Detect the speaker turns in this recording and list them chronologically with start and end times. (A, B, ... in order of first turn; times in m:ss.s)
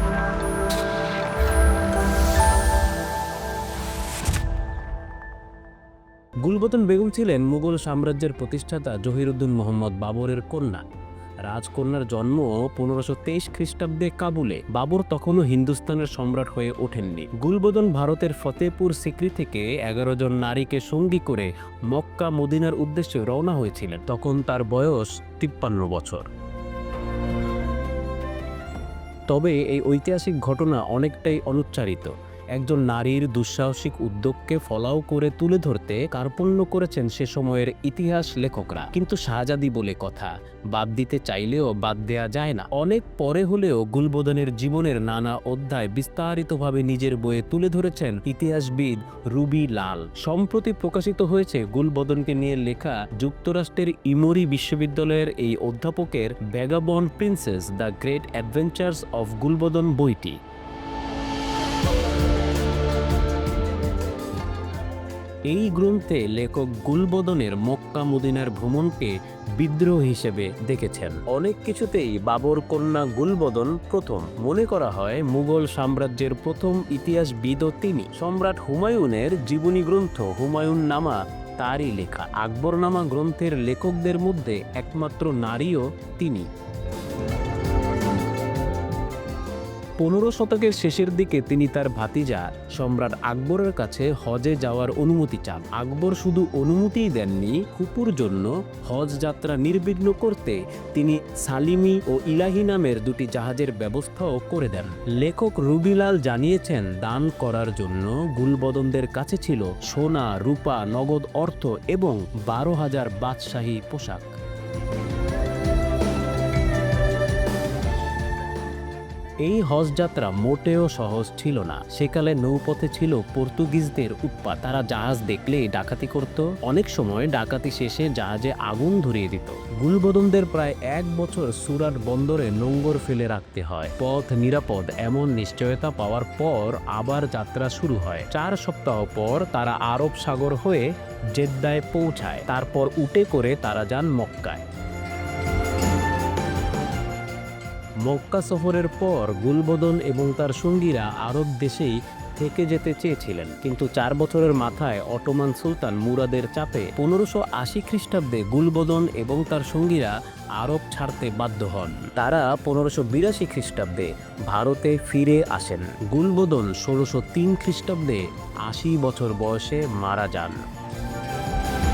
0:06.4-0:10.8 A
0:11.5-0:26.3 A
0:29.3-1:00.4 A
1:05.5-1:26.5 A
1:30.0-1:54.3 A
1:59.4-2:24.6 A
2:28.0-2:50.6 A